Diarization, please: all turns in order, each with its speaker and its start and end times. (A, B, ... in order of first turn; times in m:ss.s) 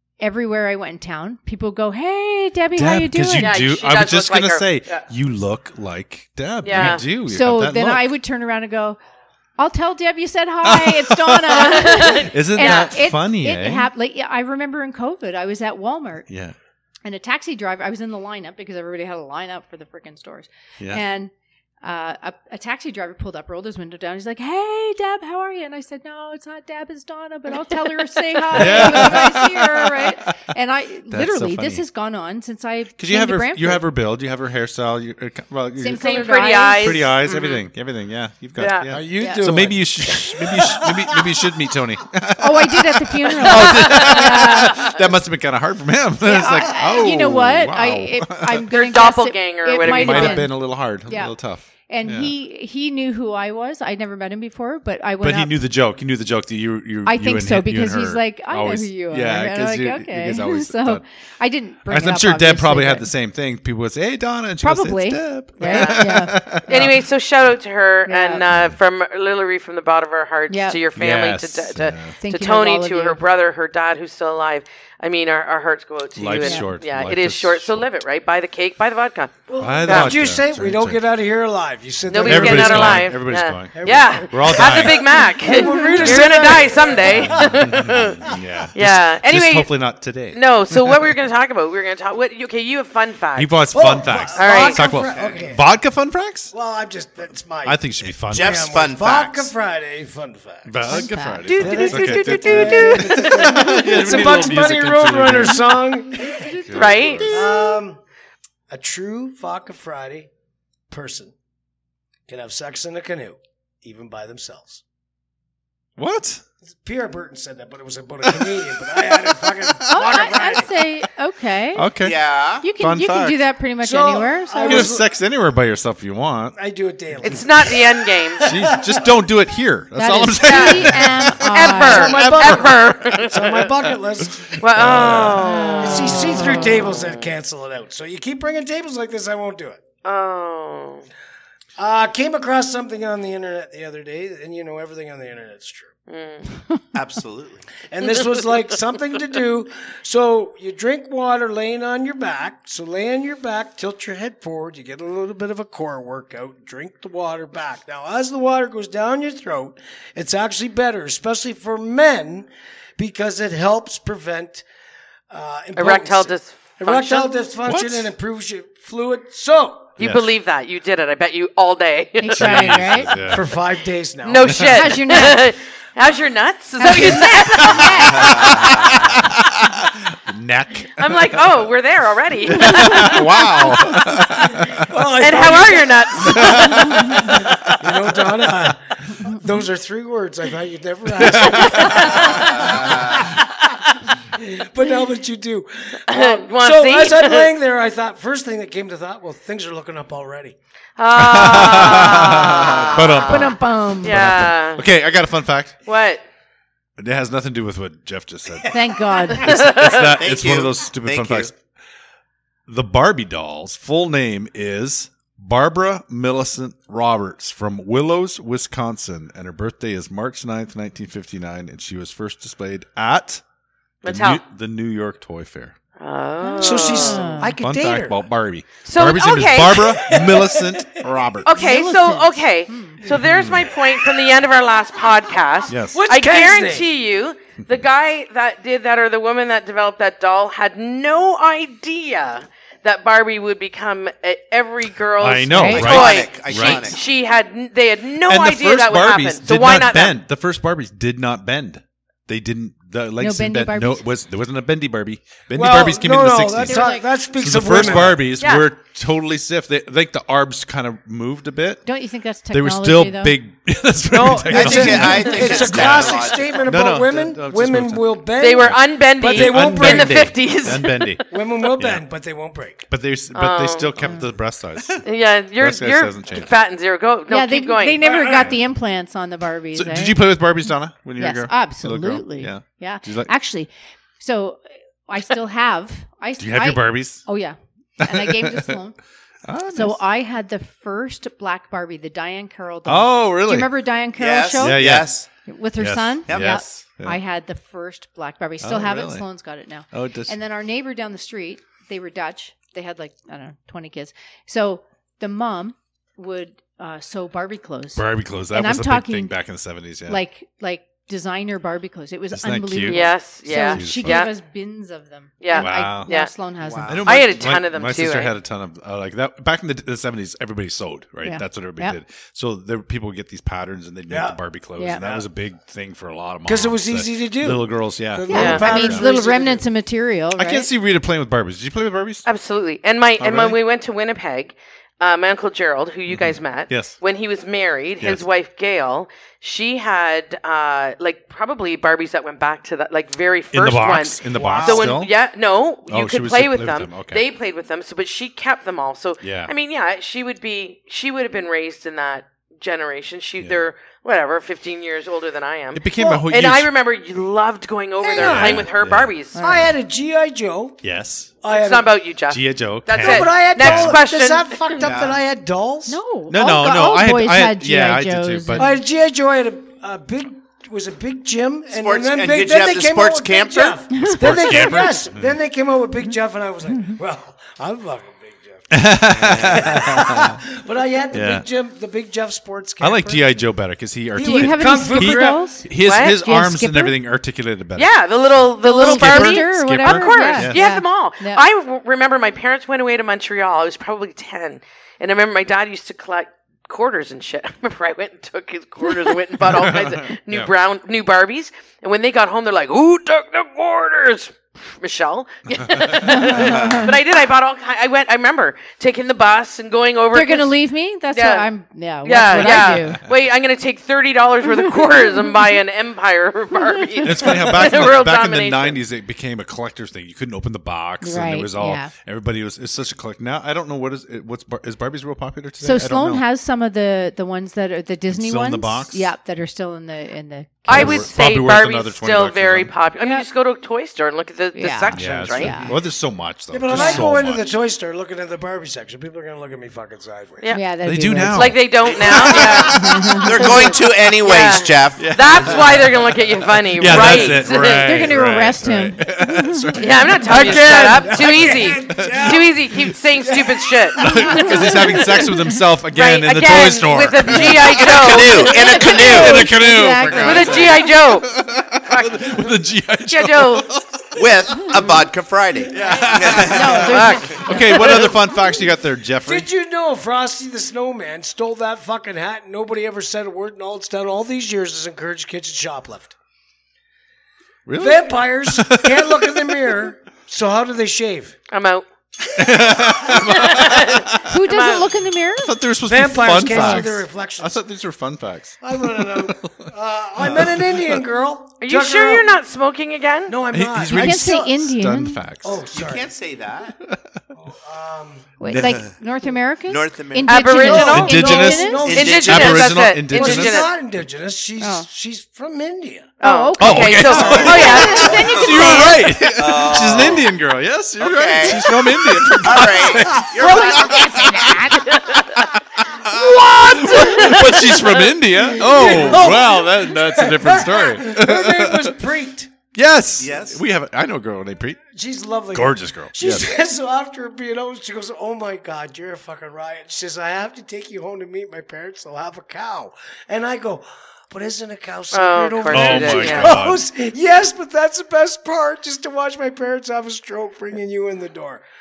0:00.2-0:03.5 A
0:02.8-0:08.1 B
0:03.4-0:05.0 C
0:06.6-0:07.0 C
0:06.8-0:09.0 A
0:09.6-0:16.3 A
0:10.6-0:13.9 B
0:11.6-0:13.0 C
0:16.3-0:16.6 B
0:17.0-0:33.8 A
0:28.4-0:29.1 C
0:28.5-0:30.4 B
0:31.1-0:31.8 B
0:33.0-0:48.7 B
0:35.8-0:37.0 A
0:36.0-0:37.6 C
0:38.6-0:38.9 C
0:38.9-0:41.2 D
0:39.2-0:39.5 A
0:42.4-0:44.9 A
0:43.4-0:45.0 C
0:46.2-0:51.4 A
0:48.7-0:50.5 C
0:49.8-0:52.3 B
0:51.9-0:55.6 A
0:55.2-1:01.0 B
0:57.1-1:03.1 A
1:01.9-1:07.0 B
1:04.6-1:06.4 A
1:05.6-1:06.1 C
1:06.6-1:20.2 C
1:08.1-1:08.4 A
1:08.5-1:08.8 B
1:10.5-1:10.8 A
1:11.0-1:12.2 B
1:12.2-1:13.2 A
1:16.2-1:17.9 B
1:16.4-1:16.7 A
1:19.5-1:23.2 D
1:19.6-1:21.0 B
1:22.1-1:29.7 C
1:22.2-1:25.1 B
1:23.8-1:28.4 D
1:25.4-1:26.0 A
1:26.0-1:26.3 B
1:27.1-1:31.1 B
1:30.3-1:33.5 C
1:33.4-1:36.5 B
1:33.7-1:35.6 D
1:34.4-1:34.8 C
1:36.5-1:48.0 D
1:37.6-1:38.7 B
1:38.3-1:39.5 E
1:40.6-1:47.5 B
1:40.9-1:41.8 A
1:41.4-1:44.1 C
1:46.4-1:46.7 A
1:46.7-1:47.7 C
1:48.7-1:50.3 D
1:50.9-1:51.3 D
1:52.3-1:54.8 D
1:56.0-1:56.4 B
1:56.6-2:00.7 D
1:58.2-2:00.2 B
1:59.9-2:01.9 A
2:01.8-2:03.4 B
2:02.0-2:02.6 E
2:02.6-2:04.9 A
2:03.8-2:05.1 D
2:04.6-2:06.6 B
2:06.6-2:09.0 D
2:07.2-2:08.5 C
2:08.4-2:13.0 B
2:10.0-2:12.2 A
2:10.4-2:13.7 C
2:11.8-2:19.8 D
2:14.2-2:15.5 B
2:14.6-2:17.3 C
2:15.4-2:16.7 A
2:20.0-2:21.1 C
2:21.8-2:25.9 D
2:26.1-2:26.4 C
2:26.9-2:27.7 E
2:27.8-2:44.6 D
2:28.0-2:28.4 C
2:45.3-2:49.9 D
2:45.8-2:47.4 C
2:47.6-2:48.1 B
2:50.0-2:52.8 C
2:50.0-2:50.3 B
2:52.2-2:53.3 A
2:52.4-2:53.5 B
2:53.3-2:54.6 D
2:54.2-2:58.7 C
2:54.5-2:54.8 B
2:54.7-2:55.5 A
2:56.8-2:58.8 A
2:57.7-3:01.5 B
2:58.2-2:58.9 E
3:01.0-3:03.9 C
3:02.5-3:04.9 B
3:03.9-3:13.6 D
3:05.2-3:07.5 C
3:06.2-3:08.0 B
3:11.2-3:12.2 B
3:11.3-3:12.6 C
3:14.3-3:20.6 D
3:16.1-3:17.5 C
3:21.0-3:23.5 C
3:21.2-3:25.8 B
3:23.3-3:24.2 A
3:24.0-3:24.8 C
3:25.9-3:26.2 C
3:27.0-3:31.5 B
3:28.7-3:29.5 A
3:29.4-3:30.1 C
3:29.9-3:31.5 E
3:32.7-3:43.4 B
3:44.0-3:44.4 C
3:44.0-3:45.8 B
3:46.0-3:47.3 C
3:46.4-3:47.6 A
3:46.6-3:48.2 D
3:47.6-3:51.5 B
3:48.8-3:50.1 C
3:50.0-3:51.0 D
3:51.4-4:10.2 C
3:51.5-3:53.0 A
3:53.1-3:53.8 B
3:55.7-3:56.0 B
3:55.9-3:56.9 D
4:05.2-4:07.0 B
4:05.5-4:05.9 A
4:05.6-4:07.0 E
4:08.3-4:21.8 B
4:13.2-4:14.0 A
4:15.5-4:18.3 D
4:16.6-4:17.1 A
4:17.7-4:18.0 A
4:18.4-4:18.7 C
4:21.8-4:23.4 A
4:22.5-4:31.2 B
4:24.1-4:30.3 D
4:24.5-4:26.7 E
4:28.4-4:31.2 C
4:31.3-4:32.8 D
4:31.8-4:32.0 B
4:32.9-4:35.1 B
4:33.3-4:33.9 C
4:35.0-4:38.1 C
4:35.6-4:36.5 B
4:37.3-4:40.2 A
4:38.0-4:38.5 D
4:39.7-4:43.3 B
4:41.2-4:49.0 A
4:46.4-4:47.2 B
4:48.0-4:48.8 B
4:49.4-4:50.0 B
4:49.7-5:09.4 A
4:52.9-4:53.7 B
4:54.1-4:55.2 E
4:54.6-4:57.2 B
4:56.3-4:56.6 E
4:58.6-4:59.3 B
4:59.9-5:00.3 B
5:08.0-5:10.2 B
5:10.1-5:17.0 A
5:12.3-5:14.3 B
5:12.9-5:14.3 C
5:15.4-5:16.3 C
5:15.5-5:16.1 B
5:16.6-5:17.1 E
5:16.8-5:29.1 B
5:17.0-5:18.3 C
5:21.2-5:22.0 A
5:24.1-5:24.4 D
5:24.8-5:25.0 A
5:25.0-5:25.2 D
5:26.4-5:29.6 D
5:28.3-5:30.7 A
5:28.3-5:28.7 C
5:30.4-5:32.2 B
5:32.3-5:59.4 C
5:33.2-5:33.6 B
5:36.1-5:37.0 B
5:43.5-5:45.1 B
5:44.3-5:45.0 D
5:45.9-5:47.2 B
5:49.2-5:49.5 B
5:55.7-5:56.7 B
5:58.0-5:58.7 D
5:58.2-5:59.7 B
5:59.4-5:59.6 A
5:59.4-6:00.8 D
6:00.8-6:01.3 B
6:01.4-6:01.9 D
6:01.5-6:04.8 C
6:02.3-6:04.0 B
6:03.0-6:06.0 D
6:04.8-6:05.2 E
6:05.9-6:08.8 A
6:06.3-6:08.8 B
6:08.6-6:23.4 D
6:11.7-6:13.8 E
6:14.0-6:14.2 A
6:14.1-6:15.4 B
6:18.7-6:20.4 B
6:19.2-6:19.9 E
6:21.1-6:21.5 B
6:22.8-6:27.9 B
6:24.2-6:27.0 A
6:24.2-6:25.5 D
6:25.8-6:26.2 C
6:27.8-6:50.6 C
6:28.6-6:31.4 A
6:28.7-6:30.6 B
6:39.4-6:40.5 B
6:45.6-6:46.0 B
6:46.0-6:46.9 A
6:46.4-6:46.9 E
6:50.1-6:53.0 A
6:51.1-6:51.5 C
6:52.0-6:58.8 C
6:52.3-6:53.0 B
6:54.6-6:55.3 A
6:57.0-7:06.2 B
7:01.0-7:01.9 A
7:05.6-7:11.1 A
7:08.1-7:09.1 B
7:10.7-7:15.6 C
7:10.7-7:12.7 B
7:13.0-7:13.3 A
7:14.6-7:15.8 A
7:14.9-7:17.5 B
7:16.5-7:20.5 D
7:16.7-7:17.1 A
7:20.5-7:21.6 A
7:20.8-7:23.1 B
7:21.2-7:22.8 C
7:22.4-7:25.1 E
7:22.7-7:23.6 A
7:23.3-7:28.1 C
7:25.0-7:26.1 B
7:26.7-7:33.0 B
7:27.0-7:29.7 A
7:29.8-7:35.3 C
7:30.2-7:35.0 D
7:34.0-7:38.3 B
7:34.4-7:34.7 A
7:35.9-7:39.0 C
7:37.8-7:39.6 E
7:38.3-7:40.8 A
7:38.9-7:44.8 B
7:40.2-7:43.7 C
7:44.1-7:47.1 E
7:45.7-7:49.5 B
7:46.2-7:48.0 A
7:46.9-7:48.0 C
7:49.2-7:56.2 D
7:57.7-7:59.8 B
7:57.8-8:01.4 D
8:01.5-8:01.8 C
8:02.4-8:04.3 B
8:03.1-8:04.9 C
8:04.2-8:05.6 A
8:05.4-8:09.7 B
8:05.8-8:07.6 D
8:06.4-8:06.9 A
8:08.6-8:12.3 D
8:10.2-8:11.0 B
8:11.6-8:13.4 C
8:13.3-8:14.5 D
8:13.5-8:15.6 B
8:13.9-8:15.2 A
8:15.4-8:16.1 D
8:15.7-8:16.8 E
8:16.8-8:17.2 B
8:17.4-8:18.3 D
8:18.4-8:21.9 A
8:18.4-8:18.9 B
8:19.7-8:20.6 E
8:20.2-8:23.7 C
8:20.6-8:26.1 D
8:20.7-8:23.7 B
8:21.8-8:22.7 E
8:24.6-8:24.9 A
8:26.2-8:29.0 C
8:26.2-8:29.1 A
8:26.6-8:42.0 B
8:27.2-8:28.1 D
8:29.4-8:30.3 E
8:31.0-8:34.6 E
8:33.4-8:34.9 A
8:34.9-8:35.2 C
8:37.0-8:37.8 C
8:38.6-8:42.5 D
8:42.7-8:44.8 B
8:43.2-8:43.6 E
8:44.9-9:01.6 D
8:45.5-8:46.5 B
8:55.1-8:56.6 C
8:55.7-8:56.8 B